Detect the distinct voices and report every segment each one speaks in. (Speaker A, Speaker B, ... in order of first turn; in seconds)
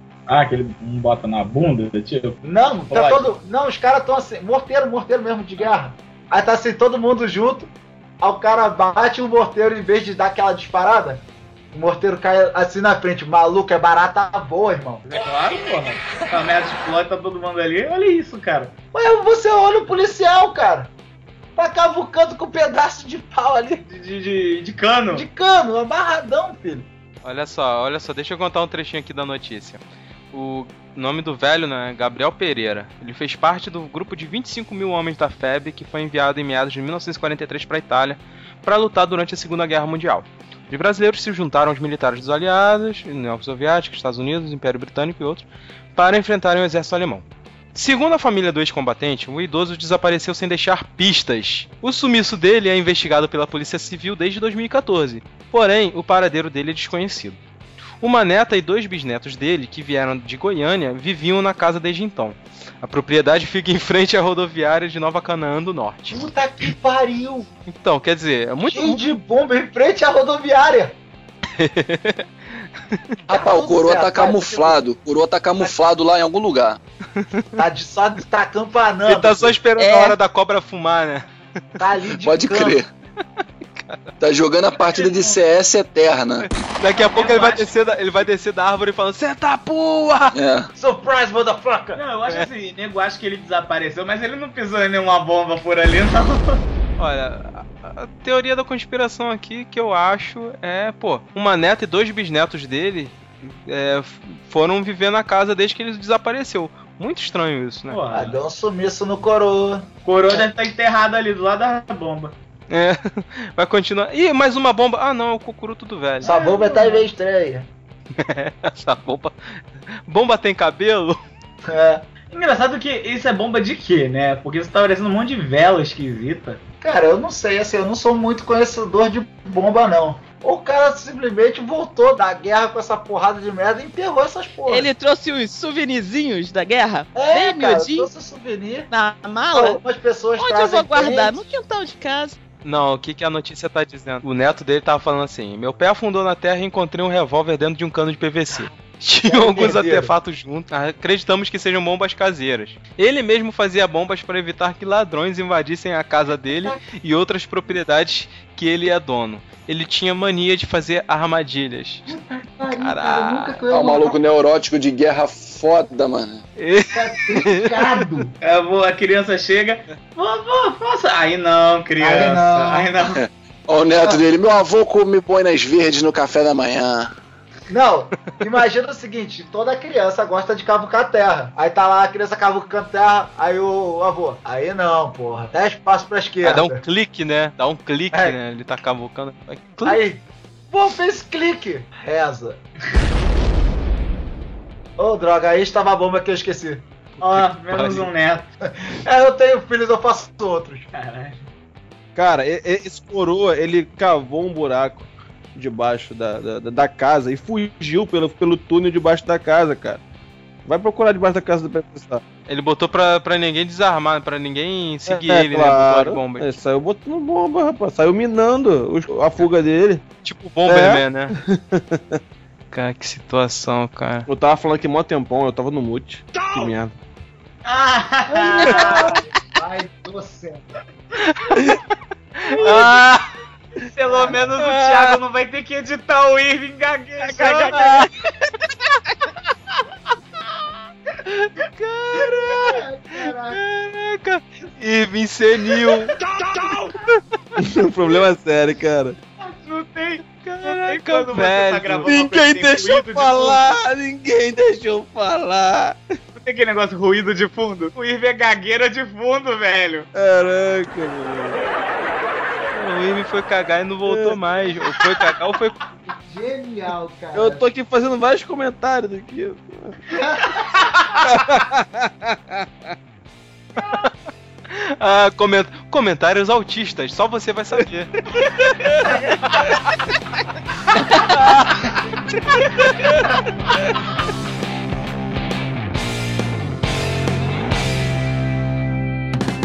Speaker A: 0.3-3.3, 15.1-18.8, 23.8-25.3, 84.8-85.4, 86.9-87.7, 91.9-96.6, 107.9-108.3, 110.0-112.3, 116.2-117.0, 122.3-126.6, 168.4-173.2, 197.2-198.5, 200.9-201.4, 226.3-226.7, 227.6-229.2, 232.6-233.2, 233.8-238.1, 245.8-246.9, 249.4-253.7, 256.4-260.1
Speaker B: 2.4-15.1, 18.9-20.9, 21.6-23.8, 25.1-26.9, 66.1-67.5, 68.6-70.9, 73.3-74.8, 77.6-79.6, 81.8-82.8, 90.8-92.0, 108.1-109.9, 116.2-117.7, 121.7-122.1, 126.8-134.9, 137.1-138.9, 139.5-141.6, 149.2-150.1, 156.5-156.8, 162.1-164.2, 166.9-168.3, 172.0-172.9, 177.7-186.8, 189.8-192.6, 195.0-196.8, 198.7-200.9, 228.6-230.7, 234.1-234.3, 242.1-243.6, 266.3-267.7, 270.1-270.6
Speaker C: 27.2-29.8, 30.3-57.4, 58.0-66.2, 67.7-69.0, 71.5-72.2, 77.2-77.5, 79.0-81.2, 86.4-90.4, 97.0-108.0, 112.7-116.3, 118.2-121.2, 142.6-162.1, 162.7-163.6, 166.6-168.1, 186.4-190.0, 197.2-198.1, 212.5-216.5, 220.2-221.3, 222.7-224.3, 231.4-231.8, 232.4-233.2, 234.6-235.2, 237.4-238.0, 241.3-246.2, 250.3-252.1, 262.7-265.8, 274.7-279.7
Speaker D: 73.3-76.8, 82.2-82.9, 84.2-86.5, 90.3-90.7, 163.7-166.4, 173.0-177.1
Speaker E: 79.8-80.2, 134.7-138.1, 138.9-139.8, 140.4-142.4
Speaker F: 202.1-210.0, 210.7-212.2, 215.1-220.0, 220.7-222.2, 224.3-226.9, 228.6-229.1, 247.6-249.2, 252.0-256.0, 260.1-261.6, 264.1-264.4, 267.3-270.0, 271.2-272.6